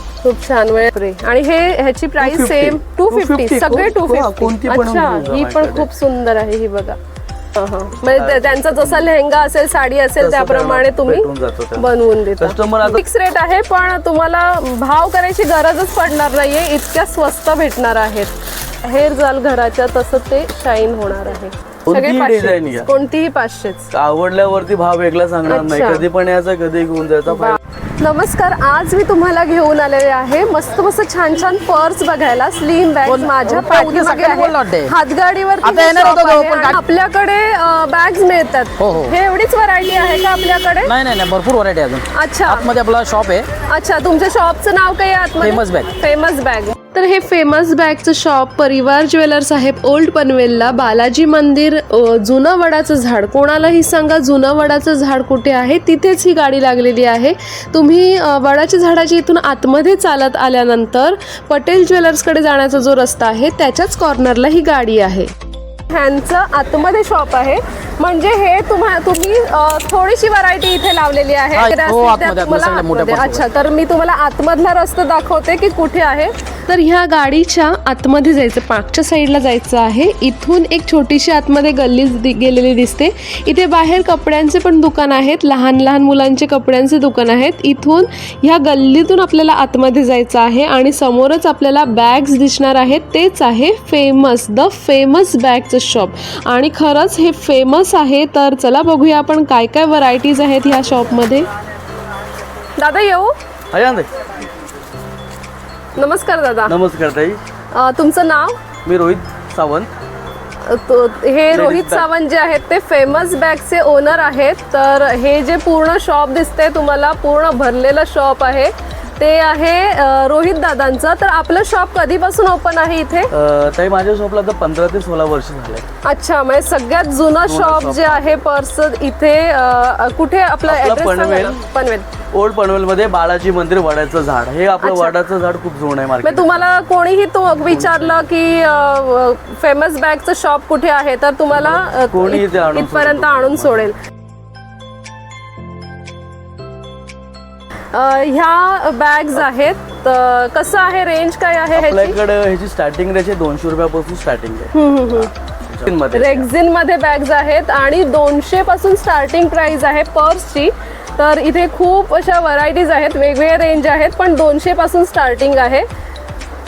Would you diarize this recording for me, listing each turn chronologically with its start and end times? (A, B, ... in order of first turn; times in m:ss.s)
0:00.2-0:07.0 A
0:02.2-0:05.9 B
0:07.5-0:23.9 A
0:08.1-0:09.1 B
0:10.2-0:13.0 B
0:21.9-0:22.9 B
0:23.9-0:27.6 B
0:25.5-0:26.1 A
0:27.3-0:41.0 A
0:33.1-0:35.0 C
0:35.6-0:36.8 C
0:38.8-0:39.2 C
0:40.8-0:43.5 C
0:42.1-0:42.7 A
0:43.6-1:05.3 A
0:45.4-0:45.9 C
1:05.9-1:41.5 A
1:11.6-1:13.5 C
1:42.8-1:43.4 A
1:43.7-1:44.1 B
1:46.0-1:46.8 A
1:46.7-1:47.4 B
1:47.7-1:48.6 A
1:48.8-1:49.9 B
1:50.6-2:03.3 A
1:51.5-1:52.1 B
2:03.3-2:05.9 B
2:06.0-2:12.2 A
2:07.4-2:08.4 B
2:10.7-2:11.6 B
2:12.3-2:16.6 B
2:14.8-2:15.2 A
2:16.2-2:24.0 A
2:17.7-2:18.3 B
2:21.5-2:23.9 B
2:27.9-2:32.2 A
2:31.7-2:36.5 B
2:34.7-2:35.3 A
2:36.1-2:45.9 A